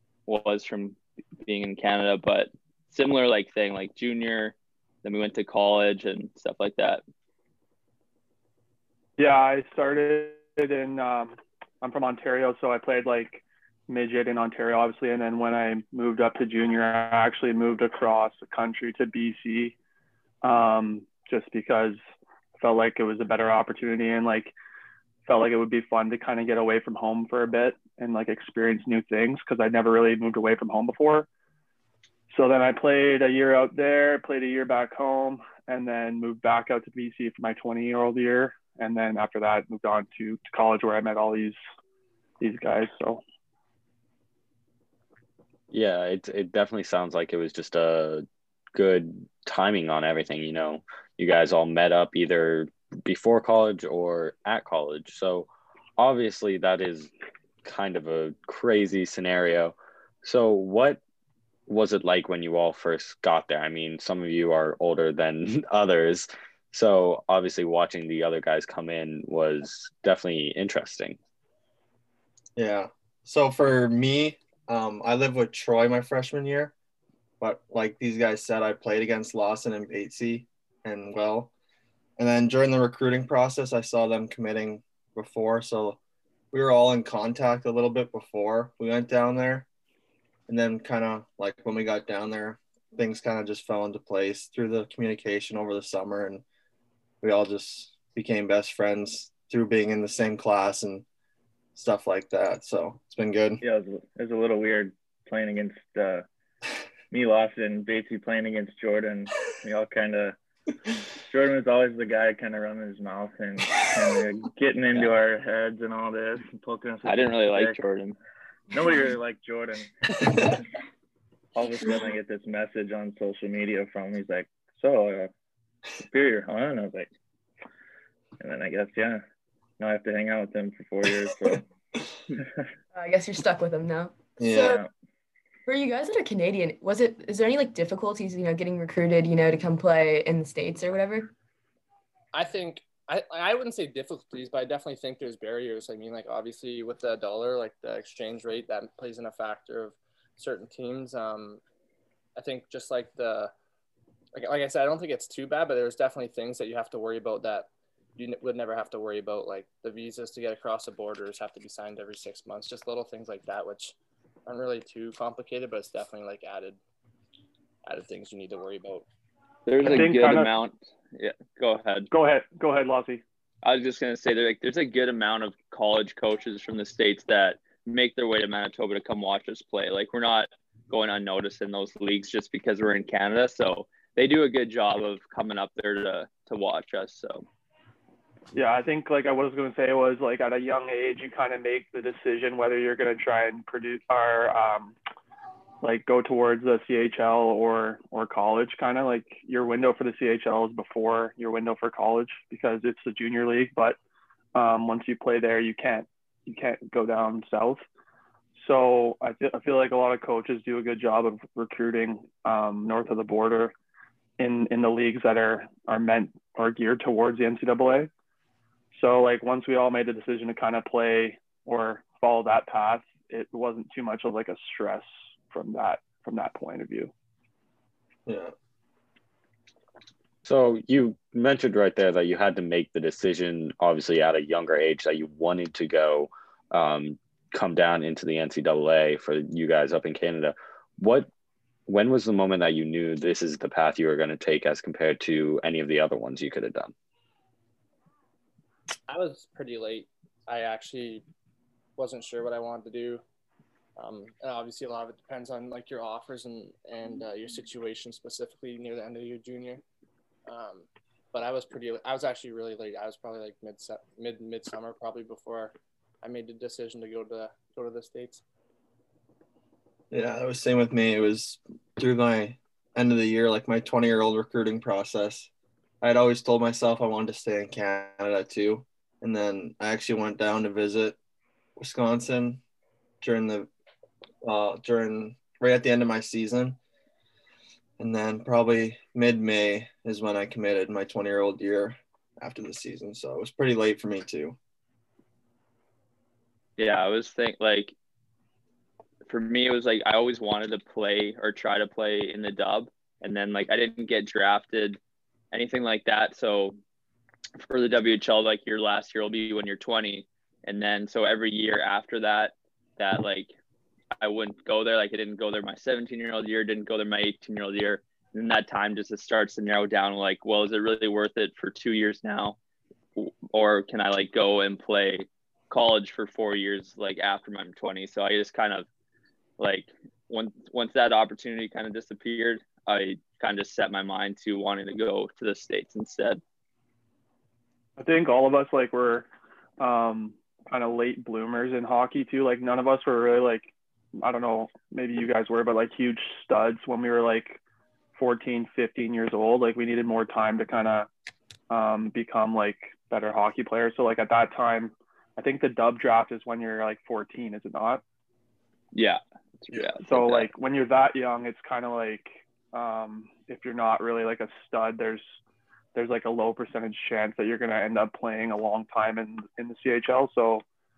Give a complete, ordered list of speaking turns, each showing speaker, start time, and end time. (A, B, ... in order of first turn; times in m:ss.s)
0:00.2-0:07.0 A
0:09.2-0:19.7 B
0:20.4-0:22.0 B
0:22.6-0:24.5 B
0:25.2-0:31.3 B
0:32.3-0:41.6 B
0:42.4-0:43.2 B
0:45.7-0:57.1 C
0:57.6-1:01.0 C
1:01.7-1:11.2 C
1:12.6-1:16.7 D
1:17.4-1:21.5 D
1:22.2-1:26.0 D
1:26.5-1:29.7 D
1:30.5-1:36.4 D
1:37.2-1:41.0 D
1:41.7-1:43.6 D
1:43.6-1:46.2 E
1:47.1-1:50.4 E
1:51.2-1:57.8 E
1:57.0-1:58.2 A
1:58.7-2:00.6 E
2:01.5-2:05.3 E
2:06.0-2:07.1 E
2:08.4-2:09.2 E
2:09.8-2:11.6 E
2:12.9-2:14.8 F
2:14.4-2:14.8 D
2:14.5-2:14.9 E
2:15.7-2:21.3 F
2:22.3-2:31.6 G
2:32.4-2:33.5 G
2:34.3-2:46.8 G
2:47.8-2:49.0 G
2:49.6-2:52.1 A
2:49.8-2:50.5 B
2:52.1-2:53.2 B
2:53.6-3:07.4 A
3:08.5-3:14.9 B
3:15.8-3:24.0 B
3:24.5-3:27.8 B
3:28.6-3:33.7 B
3:34.4-3:38.1 B
3:38.9-3:47.1 B
3:48.2-3:48.5 D
3:50.4-4:01.3 C
4:01.9-4:06.9 C
4:09.1-4:11.2 G
4:12.0-4:13.2 G
4:14.0-4:19.8 G
4:20.5-4:28.4 G
4:30.1-4:35.5 D
4:36.0-4:41.2 D
4:41.8-4:42.6 D
4:43.2-4:43.7 D
4:44.4-4:46.8 D
4:48.0-4:54.6 D
4:56.8-4:57.9 A
4:59.3-5:05.0 A
5:05.5-5:06.8 A
5:07.6-5:13.5 A
5:14.2-5:22.6 A
5:23.2-5:28.9 A
5:29.6-5:36.4 A
5:38.0-5:47.6 B
5:48.1-5:51.1 B
5:51.7-5:58.0 B
5:58.9-6:00.5 A
6:00.1-6:05.2 B
6:05.9-6:10.6 B